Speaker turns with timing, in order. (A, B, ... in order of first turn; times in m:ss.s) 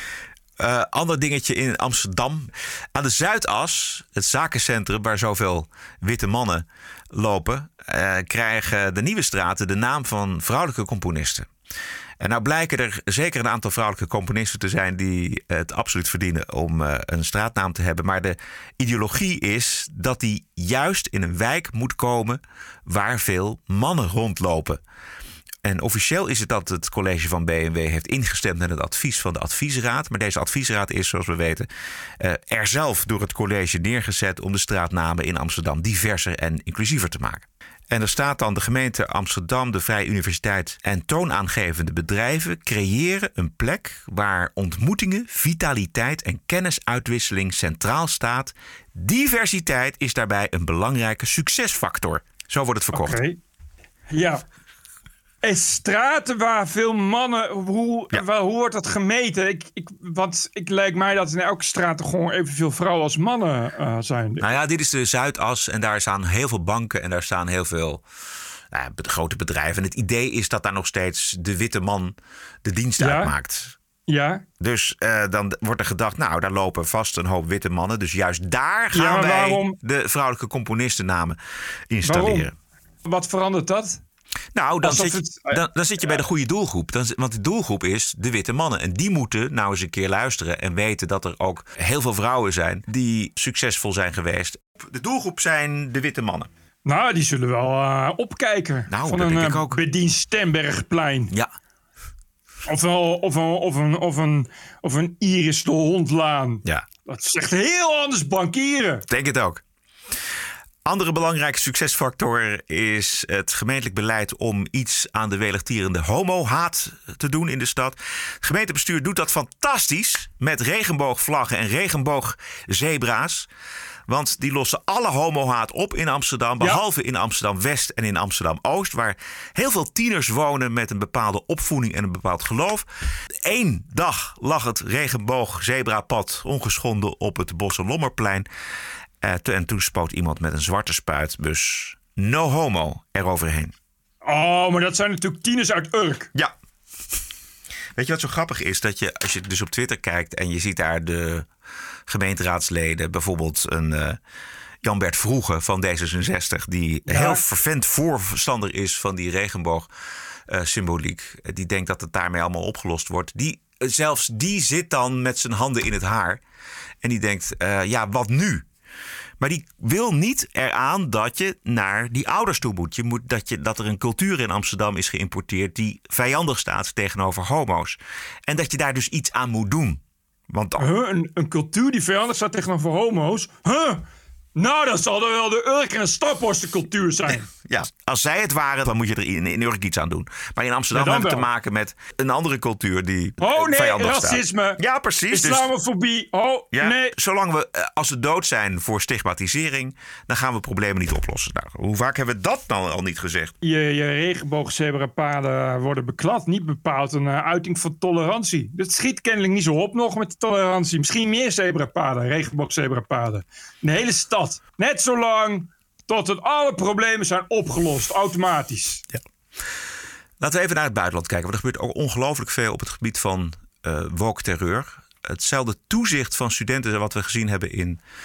0:00.6-0:11.5 A
0:12.2-0:24.8 A
0:25.6-0:31.7 A
0:32.2-0:53.2 A
0:52.9-0:53.4 B
0:54.1-0:54.4 B
0:55.4-1:04.4 B
1:04.4-1:08.0 A
1:08.7-1:13.7 A
1:13.0-1:13.3 B
1:14.1-1:14.4 B
1:14.6-1:21.4 A
1:18.9-1:19.8 B
1:21.9-1:22.5 A
1:22.0-1:22.5 B
1:23.0-1:24.0 B
1:24.5-1:36.5 A
1:24.8-1:26.2 B
1:36.8-1:41.3 B
1:38.9-1:39.8 A
1:42.7-1:49.0 B
1:49.1-1:49.6 A
1:50.8-2:03.5 A
2:04.1-2:12.8 A
2:13.4-2:18.5 A
2:19.2-2:23.7 A
2:24.2-2:26.3 B
2:27.9-2:31.5 A
2:32.1-2:34.2 A
2:34.8-2:39.9 A
2:37.0-2:37.4 B
2:40.5-2:46.4 A
2:47.0-2:48.6 A
2:49.4-3:00.9 A
3:00.8-3:04.0 B
3:04.6-3:07.5 B
3:07.5-3:15.7 A
3:10.9-3:11.4 B
3:13.4-3:14.8 B
3:15.3-3:17.1 B
3:16.7-3:23.5 A
3:23.6-3:39.0 B
3:40.4-3:48.0 A